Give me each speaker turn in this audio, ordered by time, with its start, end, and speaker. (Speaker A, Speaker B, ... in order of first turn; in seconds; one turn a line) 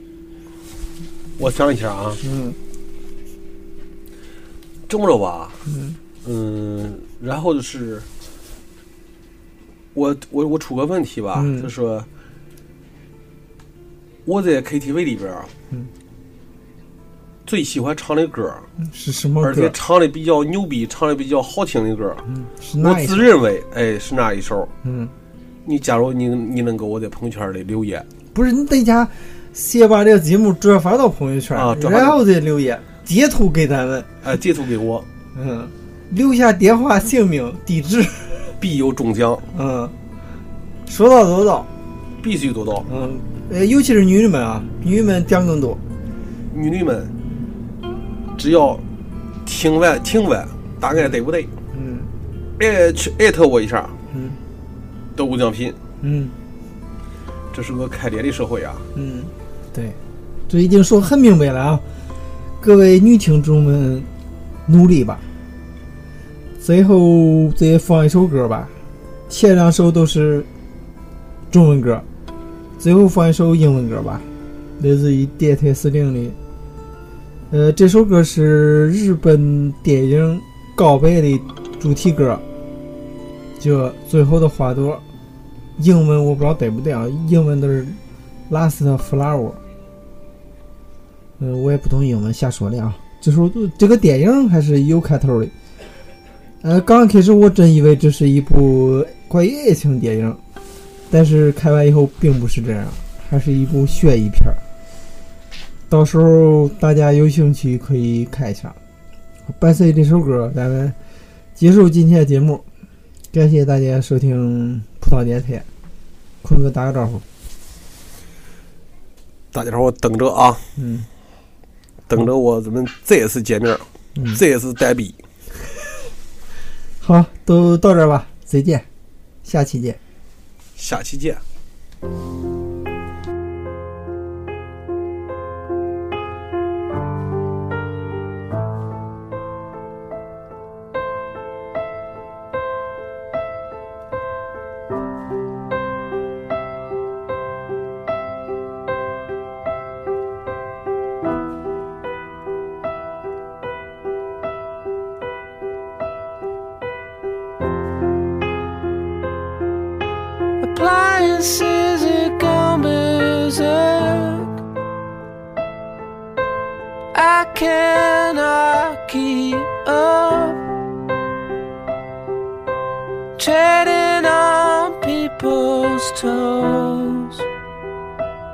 Speaker A: 1.4-2.2
Speaker B: 2.2-2.6
Speaker A: 4.9-5.6
Speaker B: 5.7-6.0
Speaker A: 6.2-8.1
Speaker A: 9.9-12.1
Speaker B: 11.3-11.7
Speaker A: 14.3-15.5
Speaker A: 17.5-18.7
Speaker B: 18.8-19.8
Speaker A: 19.4-22.2
Speaker B: 22.3-23.3
Speaker A: 22.8-24.7
Speaker B: 24.8-25.1
Speaker A: 25.7-28.1
Speaker B: 28.3-34.1
Speaker A: 31.6-32.2
Speaker A: 34.2-35.1
Speaker B: 35.4-38.5
Speaker A: 38.6-39.5
Speaker B: 39.5-39.9
Speaker B: 40.9-41.7
Speaker A: 42.2-42.9
Speaker B: 42.9-45.8
Speaker A: 46.5-47.1
Speaker A: 48.4-48.8
Speaker A: 49.5-51.5
Speaker B: 51.7-52.1
Speaker A: 52.6-54.0
Speaker B: 54.1-54.4
Speaker A: 55.1-55.8
Speaker B: 56.0-56.4
Speaker A: 57.5-58.9
Speaker B: 59.0-60.0
Speaker B: 60.5-61.8
Speaker B: 62.6-64.1
Speaker B: 64.7-65.2
Speaker B: 66.6-68.7
Speaker B: 69.3-70.5
Speaker B: 71.5-72.0
Speaker B: 72.8-74.3
Speaker B: 74.8-76.4
Speaker B: 77.5-82.4
Speaker B: 83.6-85.0
Speaker B: 85.8-89.6
Speaker B: 91.4-95.5
Speaker B: 96.6-100.4
Speaker B: 101.1-104.6
Speaker B: 105.9-108.8
Speaker B: 109.5-111.0
Speaker B: 111.6-112.6
Speaker B: 113.3-115.7
Speaker B: 116.4-117.2
Speaker A: 119.5-120.7
Speaker B: 120.8-121.1
Speaker A: 122.1-125.2
Speaker B: 127.0-128.8
Speaker B: 129.4-130.0
Speaker A: 130.8-131.4
Speaker C: 160.6-164.6
Speaker C: 167.1-170.6
Speaker C: 173.4-177.5